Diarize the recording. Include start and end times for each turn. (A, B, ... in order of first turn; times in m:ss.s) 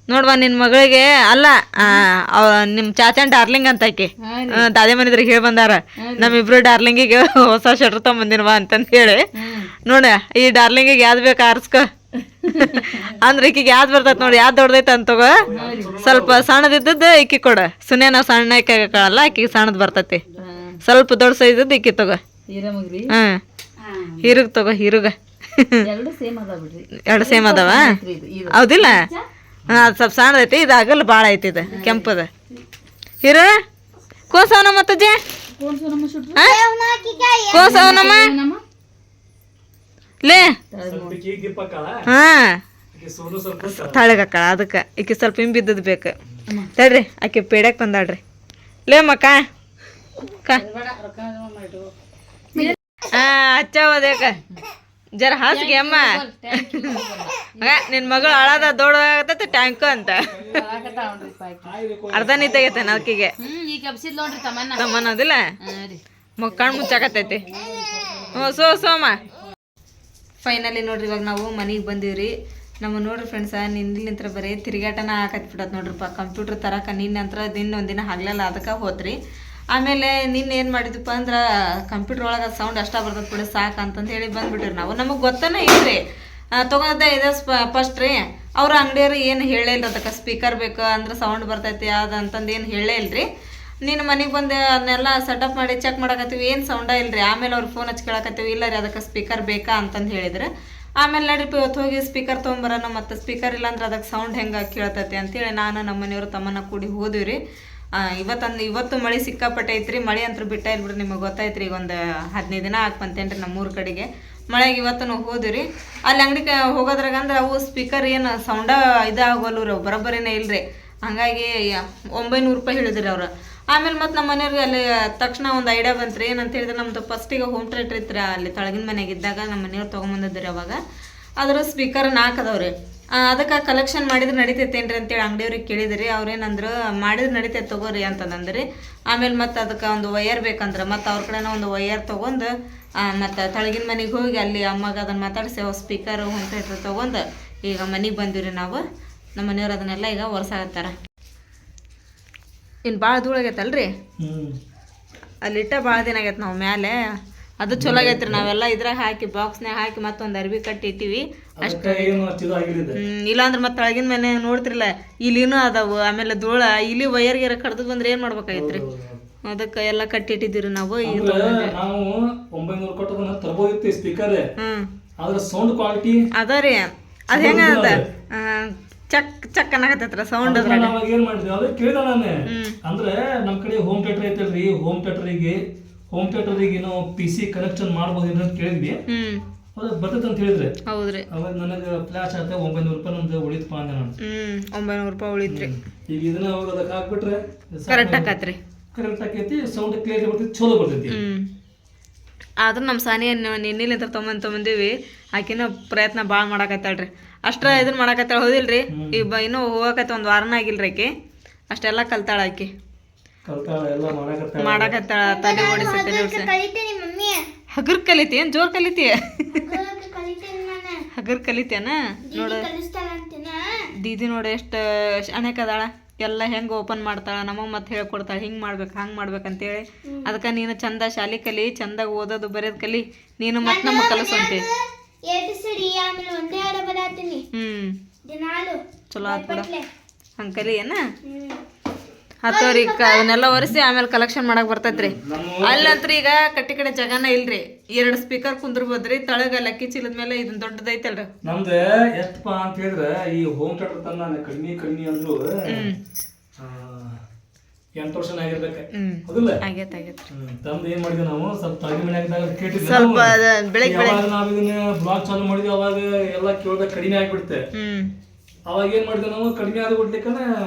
0:00.1-0:09.2 A
0:04.2-0:04.7 B
0:06.0-0:06.4 B
0:09.4-0:09.7 B
0:09.8-0:11.9 A
0:12.5-0:13.2 B
0:12.5-0:15.4 A
0:14.1-0:14.4 C
0:15.4-0:16.4 C
0:15.6-0:16.0 B
0:16.0-0:20.2 A
0:20.3-0:20.7 B
0:20.8-0:22.2 A
0:22.5-0:23.1 B
0:23.1-0:23.4 A
0:23.8-0:24.4 B
0:24.2-0:25.8 A
0:25.8-0:29.2 B
0:27.0-0:28.0 A
0:28.5-0:29.0 A
0:29.7-0:32.3 A
0:31.7-0:32.1 B
0:33.2-0:33.5 A
0:34.3-0:35.2 A
0:35.6-0:36.4 B
0:36.4-0:37.8 D
0:37.5-0:38.3 A
0:37.6-0:38.6 B
0:40.2-0:40.6 A
0:40.7-0:41.2 B
0:40.8-0:42.0 C
0:42.1-0:42.6 A
0:42.9-0:44.0 C
0:43.6-0:46.1 A
0:46.7-0:48.2 A
0:48.9-0:49.4 A
0:50.5-0:51.9 B
0:52.6-0:54.6 A
0:55.2-0:57.0 A
0:55.5-0:58.7 B
0:57.6-1:00.4 A
1:00.1-1:03.1 C
1:00.4-1:01.7 B
1:02.1-1:03.3 A
1:03.4-1:04.8 B
1:04.8-1:05.4 A
1:05.6-1:06.0 B
1:06.4-1:07.5 A
1:06.6-1:08.5 B
1:07.6-1:08.7 C
1:08.3-1:09.2 A
1:10.4-1:19.2 A
1:19.7-1:26.0 A
1:26.6-1:33.3 A
1:33.8-1:40.5 A
1:41.0-1:47.4 A
1:48.0-2:10.8 A
2:11.4-2:22.5 A
2:23.1-2:28.8 A
2:29.4-2:30.9 A
2:32.9-2:33.9 A
2:34.2-2:34.6 C
2:35.4-2:37.0 A
2:37.6-2:42.2 A
2:37.8-2:38.5 C
2:41.6-2:43.0 C
2:43.0-2:48.8 A
2:48.5-2:49.2 C
2:49.5-2:51.7 A
2:51.0-2:54.4 C
2:54.6-2:54.9 A
2:55.2-2:56.2 C
2:56.4-3:00.9 A
2:57.3-2:58.1 C
3:00.4-3:05.6 C
3:02.5-3:02.8 A
3:06.1-3:09.0 C
3:09.1-3:09.4 A
3:09.8-3:10.7 C
3:10.9-3:11.3 A
3:11.3-3:14.1 C
3:14.2-3:15.7 A
3:15.5-3:18.3 C
3:17.9-3:18.6 A
3:18.9-3:21.2 C
3:21.1-3:21.5 A
3:22.6-3:31.1 A
3:28.9-3:29.3 C
3:31.7-3:32.7 A
3:33.4-3:35.0 C
3:34.6-3:36.5 A
3:35.2-3:37.5 D
3:37.8-3:39.6 A
3:39.5-3:41.0 D
3:41.2-3:42.7 A
3:42.3-3:43.8 D
3:44.0-3:44.8 A
3:45.3-3:54.6 A
3:50.0-3:50.3 D
3:53.6-3:57.4 D
3:57.5-3:57.9 A
3:58.2-3:59.9 D
3:59.1-3:59.7 A
4:00.4-4:01.0 A
4:01.2-4:01.6 D
4:02.4-4:11.3 A
4:02.5-4:03.3 D
4:04.9-4:06.0 C
4:11.4-4:15.9 C
4:15.7-4:16.0 A
4:16.6-4:17.2 C
4:18.0-4:19.6 C
4:19.0-4:20.3 A
4:20.3-4:27.6 C
4:22.8-4:24.2 A
4:27.8-4:28.1 A
4:28.7-4:30.5 C